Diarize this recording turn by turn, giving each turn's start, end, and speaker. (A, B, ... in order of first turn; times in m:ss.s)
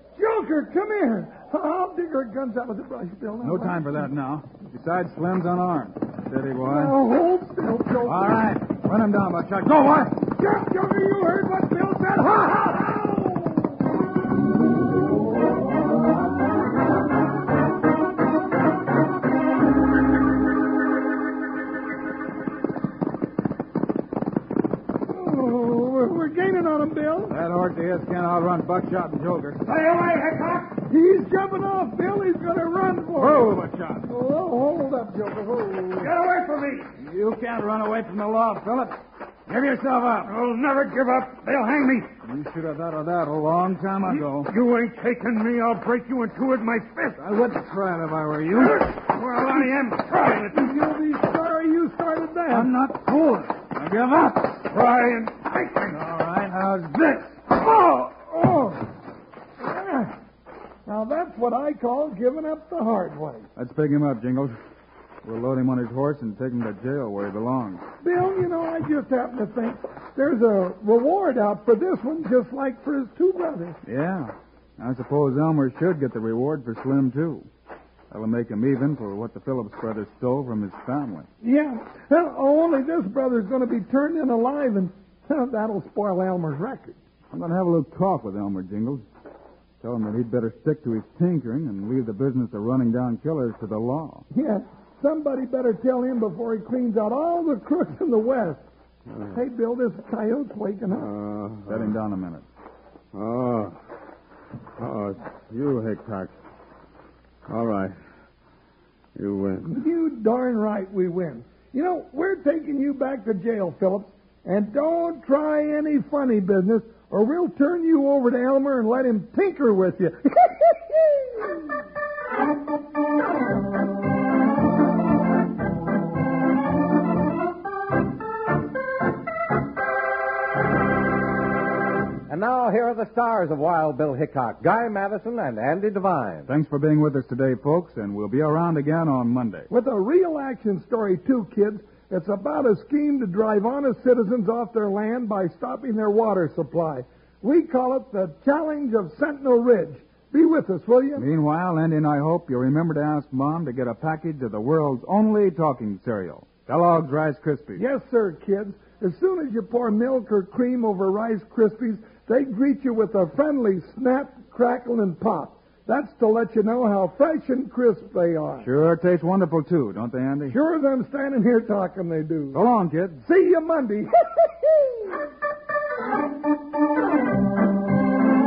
0:00.2-0:04.0 A
0:03.4-0:07.0 B
0:06.6-0:08.5 A
0:08.0-0:10.2 B
0:10.3-0:13.8 A
0:25.1-0:27.4 A
0:27.3-0:29.6 B
0:29.6-0:30.8 C
0:30.9-0:36.1 A
0:33.1-0:34.1 B
0:36.0-0:36.9 C
0:37.0-0:39.0 B
0:39.5-0:40.3 B
0:40.2-0:42.1 C
0:42.3-0:44.5 B
0:44.1-0:47.2 C
0:47.2-0:48.9 B
0:48.6-0:50.7 C
0:50.5-0:52.7 A
0:52.5-0:54.7 B
0:54.6-0:56.0 C
0:55.9-0:57.6 B
0:58.4-0:58.8 B
0:59.6-1:00.2 A
1:00.9-1:03.5 A
1:03.6-1:04.6 B
1:05.2-1:07.8 B
1:08.0-1:13.8 A
1:13.8-1:17.5 B
1:18.1-1:21.3 B
1:21.4-1:27.0 A
1:27.3-1:29.0 B
1:29.8-1:34.3 B
1:34.3-1:38.6 A
1:39.3-1:41.1 A
1:40.9-1:42.0 C
1:41.7-1:42.4 B
1:43.1-1:43.8 C
1:44.8-1:46.3 C
1:47.5-1:48.0 C
1:49.2-1:49.8 C
1:49.7-2:01.5 A
2:12.3-2:16.5 D
2:16.5-2:19.7 B
2:19.7-2:31.3 A
2:31.2-2:37.8 B
2:37.8-2:48.7 A
2:48.6-2:50.6 B
2:50.5-2:52.6 A
2:52.5-2:53.2 B
2:53.2-2:55.2 A